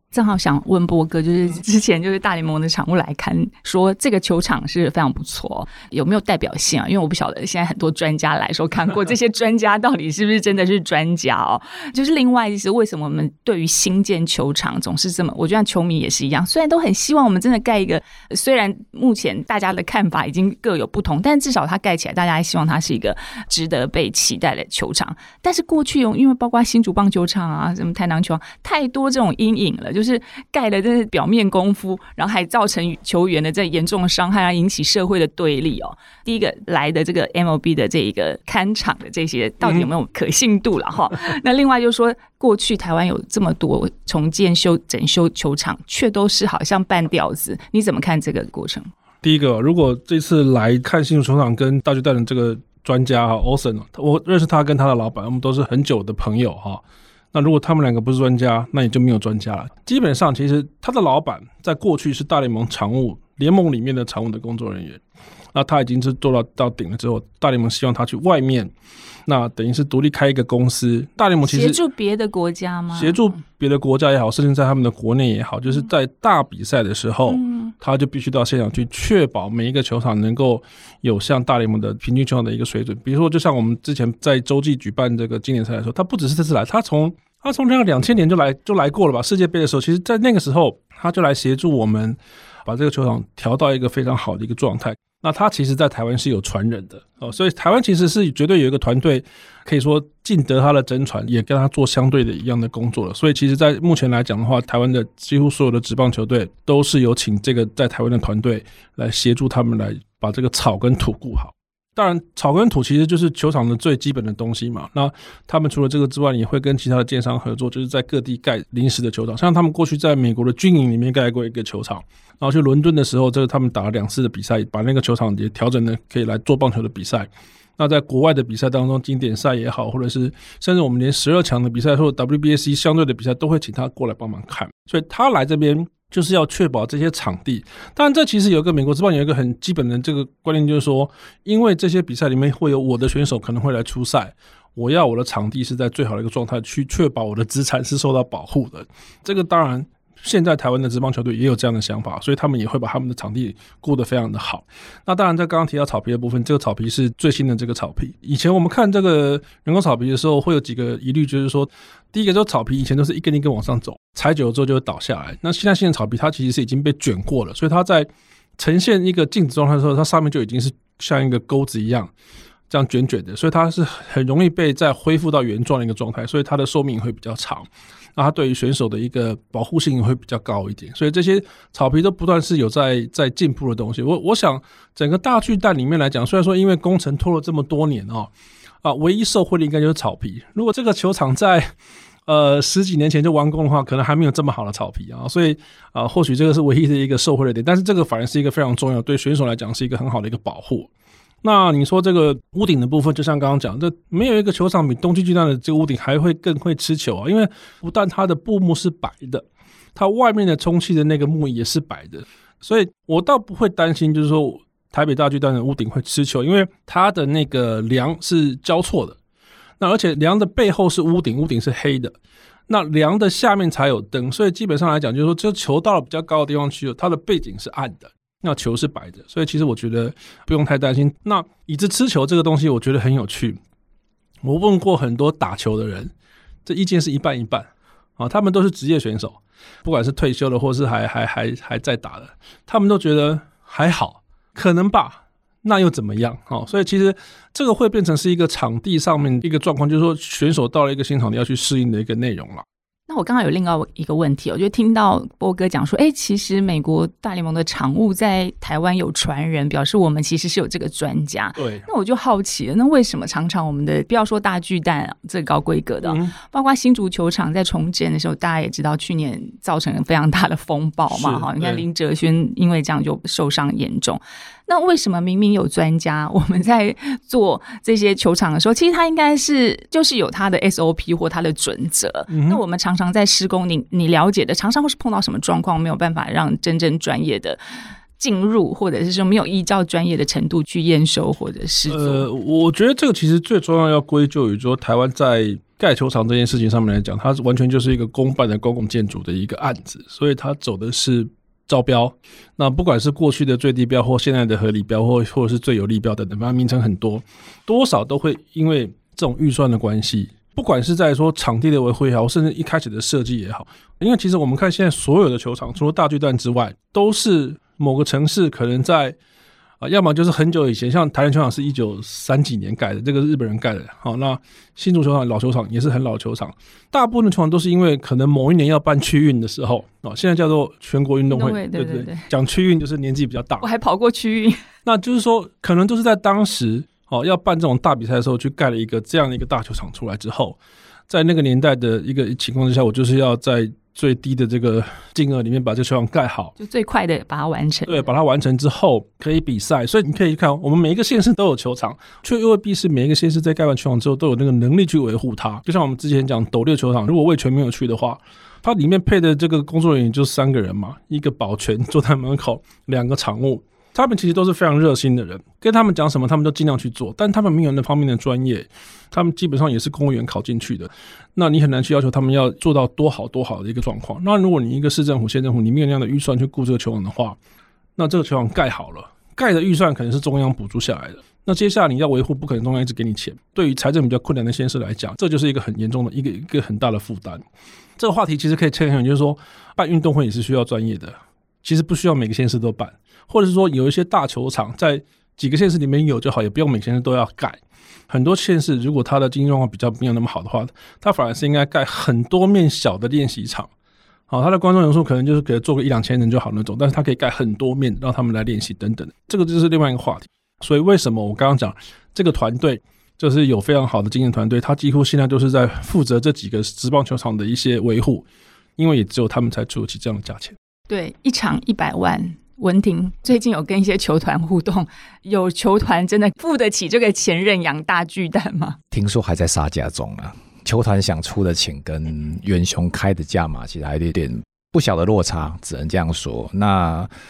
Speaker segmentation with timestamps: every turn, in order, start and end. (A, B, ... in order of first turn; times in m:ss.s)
0:00.1-0:48.9 A
0:49.2-1:05.0 B
1:05.5-1:08.7 B
1:09.2-1:11.8 B
1:11.4-1:13.4 A
1:12.9-2:52.1 B
1:17.3-1:17.7 A
2:52.7-3:08.3 B
3:08.8-3:11.7 B
3:12.3-3:20.9 B
3:21.4-3:39.2 B
3:39.8-3:42.1 B
3:42.7-3:53.6 B
3:54.4-3:56.1 B
3:56.6-4:12.6 B
4:13.1-4:47.6 A
4:21.6-4:21.8 B
4:26.0-4:26.4 B
4:31.1-4:31.8 B
4:42.3-4:42.6 B
4:48.2-4:52.2 A
4:51.9-5:19.2 B
5:19.8-5:33.6 B
5:31.3-5:32.3 A
5:33.6-5:34.6 A
5:34.8-5:46.5 B
5:46.6-5:48.1 A
5:47.8-6:17.4 B
6:18.0-6:27.4 B
6:28.0-6:43.7 B
6:44.3-6:58.2 B
6:58.8-7:00.6 B
7:00.9-7:08.8 A
7:08.9-7:17.1 C